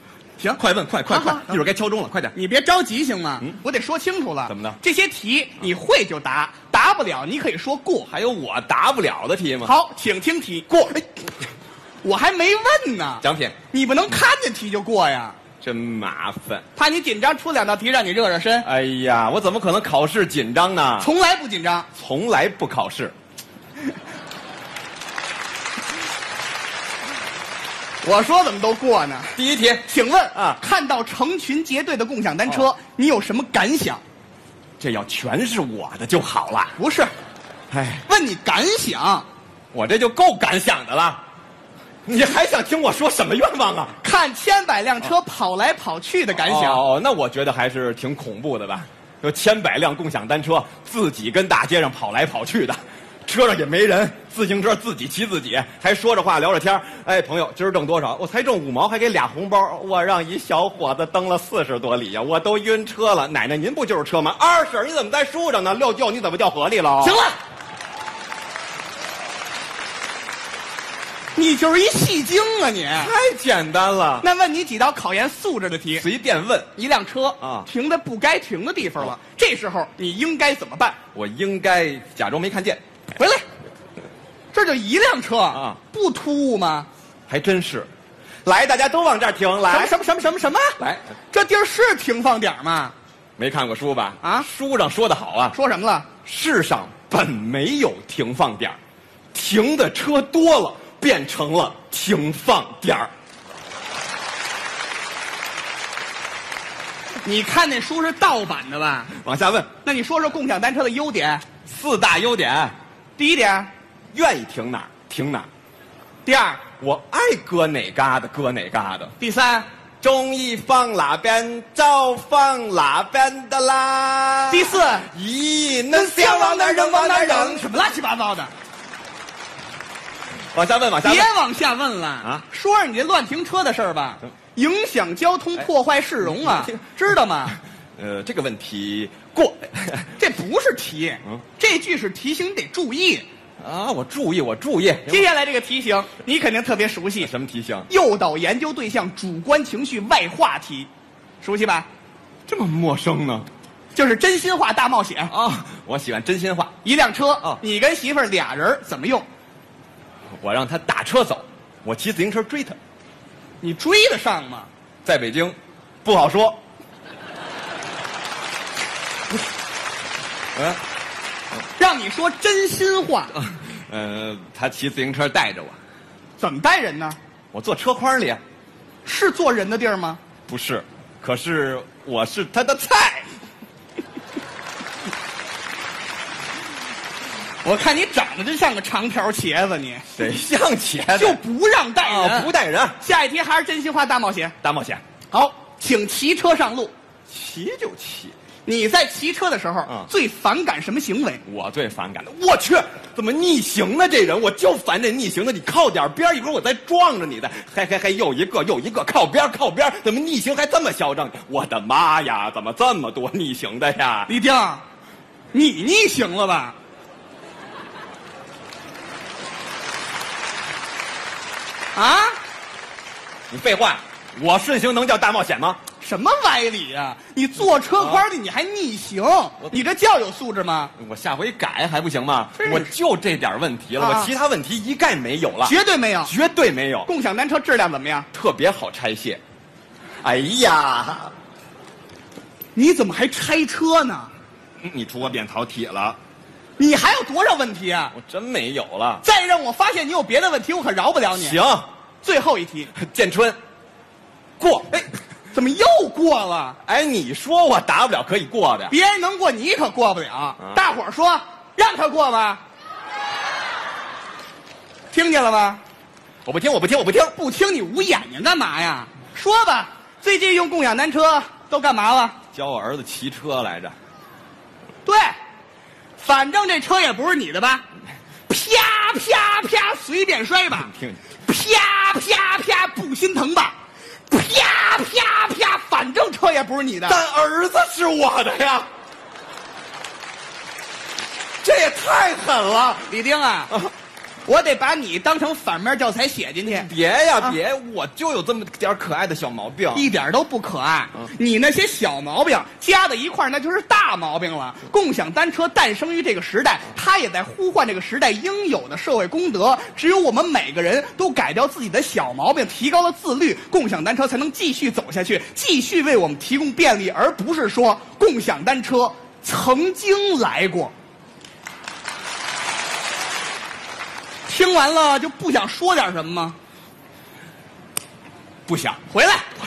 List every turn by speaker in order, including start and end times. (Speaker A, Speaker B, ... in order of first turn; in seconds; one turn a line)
Speaker A: 0.4-1.5
Speaker B: 0.6-2.3
Speaker A: 2.3-8.1
Speaker B: 4.5-4.8
Speaker B: 8.1-9.7
Speaker A: 9.6-10.7
Speaker B: 10.7-11.1
Speaker A: 12.0-15.4
Speaker B: 13.2-13.6
Speaker B: 15.6-16.6
Speaker A: 16.8-18.6
Speaker B: 18.6-21.1
Speaker A: 21.0-21.9
Speaker B: 21.9-23.1
Speaker A: 28.0-34.0
Speaker B: 29.4-30.6
Speaker B: 34.8-36.7
Speaker A: 36.8-37.1
Speaker B: 37.7-38.0
Speaker A: 38.1-39.2
Speaker B: 39.7-41.2
Speaker B: 42.0-44.0
Speaker A: 44.0-46.8
Speaker B: 46.3-67.2
Speaker A: 67.0-67.3
Speaker A: 71.3-73.1
Speaker B: 72.9-74.2
Speaker A: 74.2-76.0
Speaker B: 75.9-76.7
Speaker A: 76.8-81.0
Speaker B: 77.4-77.7
Speaker B: 81.1-82.8
Speaker A: 83.2-83.4
Speaker A: 84.5-86.9
Speaker B: 85.5-85.8
Speaker B: 87.3-87.9
Speaker B: 88.4-89.9
Speaker A: 89.7-90.8
Speaker A: 91.3-92.9
Speaker B: 93.4-95.5
Speaker A: 94.2-94.5
Speaker A: 95.5-96.1
Speaker B: 96.2-98.8
Speaker B: 99.3-103.1
Speaker A: 107.2-109.1
Speaker B: 109.1-109.7
Speaker A: 109.8-111.4
Speaker B: 111.7-112.7
Speaker A: 113.2-113.7
Speaker B: 114.1-115.5
Speaker A: 116.2-116.6
Speaker B: 116.8-119.1
Speaker A: 119.2-119.7
Speaker B: 120.0-127.7
Speaker A: 124.5-125.1
Speaker A: 125.9-128.5
Speaker B: 130.5-131.3
Speaker A: 131.0-137.6
Speaker B: 136.2-136.7
Speaker B: 138.0-140.1
Speaker A: 140.2-143.2
Speaker B: 143.6-145.3
Speaker A: 145.1-147.3
Speaker B: 147.2-147.9
Speaker A: 147.9-150.9
Speaker A: 151.4-151.9
Speaker B: 152.5-153.5
Speaker A: 153.9-155.3
Speaker B: 155.3-156.8
Speaker A: 156.8-159.2
Speaker B: 160.4-162.8
Speaker A: 163.6-164.7
Speaker B: 165.0-166.6
Speaker A: 171.8-173.3
Speaker B: 173.4-175.8
Speaker A: 176.4-177.2
Speaker B: 177.5-178.4
Speaker A: 179.0-180.2
Speaker B: 180.5-183.3
Speaker A: 187.6-190.1
Speaker B: 190.1-191.4
Speaker A: 191.2-194.5
Speaker B: 192.0-193.0
Speaker B: 194.6-195.0
Speaker A: 195.3-196.9
Speaker B: 197.3-198.3
Speaker A: 198.7-201.4
Speaker B: 201.4-214.3
Speaker A: 214.3-214.8
Speaker A: 215.5-216.8
Speaker A: 221.9-222.4
Speaker B: 223.5-225.8
Speaker A: 226.0-230.9
Speaker B: 227.9-228.2
Speaker B: 231.0-237.1
Speaker A: 232.6-232.9
Speaker A: 234.0-234.3
Speaker A: 235.6-236.3
Speaker A: 237.1-238.2
Speaker B: 238.3-239.4
Speaker B: 240.2-241.3
Speaker A: 242.7-244.3
Speaker B: 244.8-246.2
Speaker A: 246.8-248.1
Speaker B: 248.1-249.2
Speaker A: 249.2-251.6
Speaker B: 251.3-251.8
Speaker A: 252.2-252.9
Speaker B: 252.9-253.6
Speaker B: 254.6-255.1
Speaker A: 255.5-256.8
Speaker B: 256.8-258.9
Speaker A: 258.9-262.6
Speaker A: 265.1-265.8
Speaker B: 266.4-267.3
Speaker A: 267.4-272.4
Speaker B: 272.5-273.9
Speaker A: 275.0-275.4
Speaker A: 276.2-277.8
Speaker A: 278.5-280.9
Speaker B: 280.9-281.2
Speaker A: 281.4-283.7
Speaker A: 284.3-287.2
Speaker B: 287.1-288.9
Speaker B: 291.6-293.1
Speaker A: 293.1-293.7
Speaker A: 294.4-296.9
Speaker B: 296.7-300.1
Speaker A: 299.9-320.9
Speaker A: 324.4-326.6
Speaker B: 328.7-329.0
Speaker A: 329.1-329.5